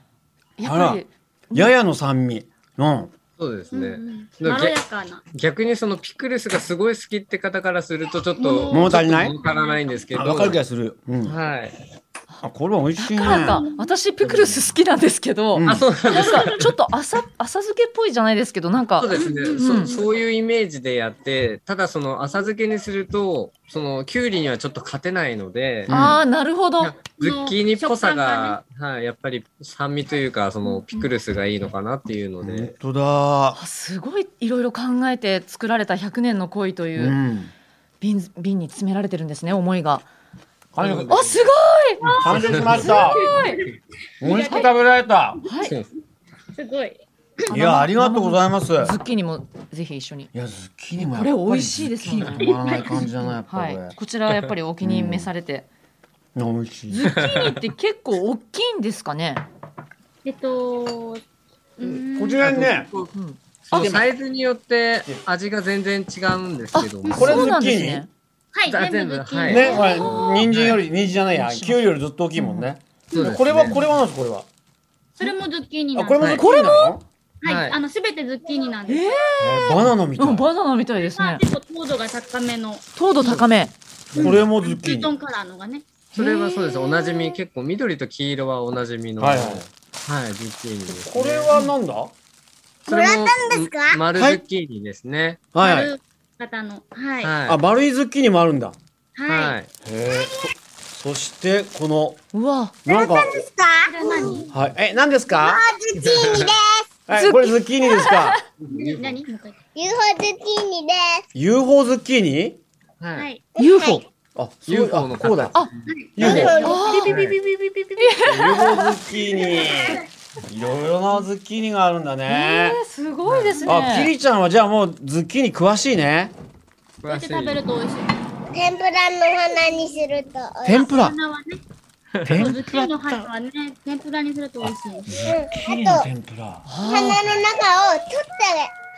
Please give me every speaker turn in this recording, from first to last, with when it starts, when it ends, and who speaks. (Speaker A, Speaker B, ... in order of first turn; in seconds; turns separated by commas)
Speaker A: 0.6-1.7, Speaker B: 0.6-1.0, Speaker B: 1.5-3.1, Speaker C: 3.4-4.8, Speaker D: 3.7-5.2, Speaker C: 5.3-10.6, Speaker D: 8.4-9.8, Speaker B: 8.7-9.3, Speaker B: 10.1-11.3, Speaker C: 11.2-11.8, Speaker B: 12.4-13.6, Speaker A: 13.0-19.9, Speaker D: 13.2-13.9, Speaker B: 15.5-15.8, Speaker C: 15.7-16.7, Speaker C: 19.0-26.0, Speaker D: 19.1-20.1, Speaker B: 25.9-26.2, Speaker A: 25.9-26.9, Speaker C: 26.8-32.7, Speaker D: 27.2-28.6, Speaker A: 30.7-31.1, Speaker B: 32.4-33.6, Speaker A: 33.5-37.1, Speaker B: 37.0-37.5, Speaker A: 38.0-40.0, Speaker B: 40.7-41.3, Speaker C: 40.8-41.3, Speaker A: 41.1-42.0, Speaker C: 42.0-43.2, Speaker D: 42.0-43.6, Speaker B: 42.2-43.3, Speaker A: 42.7-43.6, Speaker B: 44.2-45.4, Speaker D: 44.2-44.7, Speaker A: 44.4-44.7, Speaker A: 45.4-45.7, Speaker C: 45.6-45.9, Speaker D: 46.5-47.0, Speaker A: 47.5-50.3, Speaker B: 47.5-48.9, Speaker B: 50.3-53.9, Speaker A: 51.0-52.6, Speaker D: 52.2-53.0, Speaker A: 53.4-55.6, Speaker B: 54.8-55.3, Speaker B: 56.4-57.1, Speaker A: 56.9-59.4, Speaker C: 57.0-57.6, Speaker D: 60.2-61.2, Speaker D: 61.8-62.5, Speaker B: 61.8-62.9, Speaker C: 62.4-63.1, Speaker A: 63.1-63.4, Speaker C: 63.6-67.5, Speaker B: 63.7-64.1, Speaker A: 66.7-68.1, Speaker D: 67.0-67.4, Speaker B: 67.1-68.0, Speaker D: 68.5-70.4, Speaker C: 68.7-70.8, Speaker B: 69.4-74.5, Speaker A: 71.3-72.7, Speaker D: 73.1-73.8, Speaker C: 73.1-73.8, Speaker D: 75.2-79.1, Speaker B: 75.9-77.0, Speaker C: 77.4-77.8, Speaker A: 78.9-81.4, Speaker B: 79.4-80.5, Speaker D: 81.0-82.9, Speaker A: 83.0-83.7, Speaker C: 84.1-84.4, Speaker B: 84.2-85.1, Speaker D: 84.2-85.9, Speaker C: 86.1-91.5, Speaker A: 86.1-86.9, Speaker B: 89.2-89.7, Speaker B: 90.9-92.1, Speaker E: 92.8-94.0, Speaker C: 92.9-95.4, Speaker B: 94.1-94.4, Speaker B: 95.5-95.9, Speaker D: 95.6-97.3, Speaker C: 97.2-97.6, Speaker B: 97.5-98.7, Speaker D: 99.2-99.5, Speaker C: 99.3-99.7, Speaker B: 99.8-102.2, Speaker A: 102.3-102.8, Speaker B: 102.8-103.4, Speaker E: 102.8-104.5, Speaker D: 103.9-104.5, Speaker B: 104.5-105.6, Speaker E: 105.3-106.9, Speaker C: 106.0-106.5, Speaker B: 107.1-108.4, Speaker A: 107.1-108.4, Speaker C: 108.6-109.2, Speaker D: 108.7-109.6, Speaker E: 109.7-111.2, Speaker B: 111.3-112.6, Speaker C: 113.0-113.3, Speaker D: 113.2-113.4, Speaker A: 113.6-114.0, Speaker E: 113.6-114.0, Speaker B: 114.3-115.5, Speaker C: 114.7-115.9, Speaker D: 115.9-117.2, Speaker B: 116.2-116.6, Speaker E: 116.2-118.2, Speaker A: 116.6-119.0, Speaker C: 116.9-117.3, Speaker B: 118.2-122.8, Speaker E: 119.4-119.9, Speaker A: 122.3-124.1, Speaker C: 123.2-123.7, Speaker B: 123.7-126.3, Speaker C: 127.0-127.6, Speaker D: 127.1-128.2, Speaker E: 128.5-130.8, Speaker B: 130.6-131.1, Speaker D: 130.7-131.6, Speaker C: 132.2-132.6, Speaker B: 132.2-133.3, Speaker D: 132.3-135.2, Speaker B: 135.1-136.6, Speaker E: 135.2-136.1, Speaker A: 136.6-137.2, Speaker E: 136.8-138.7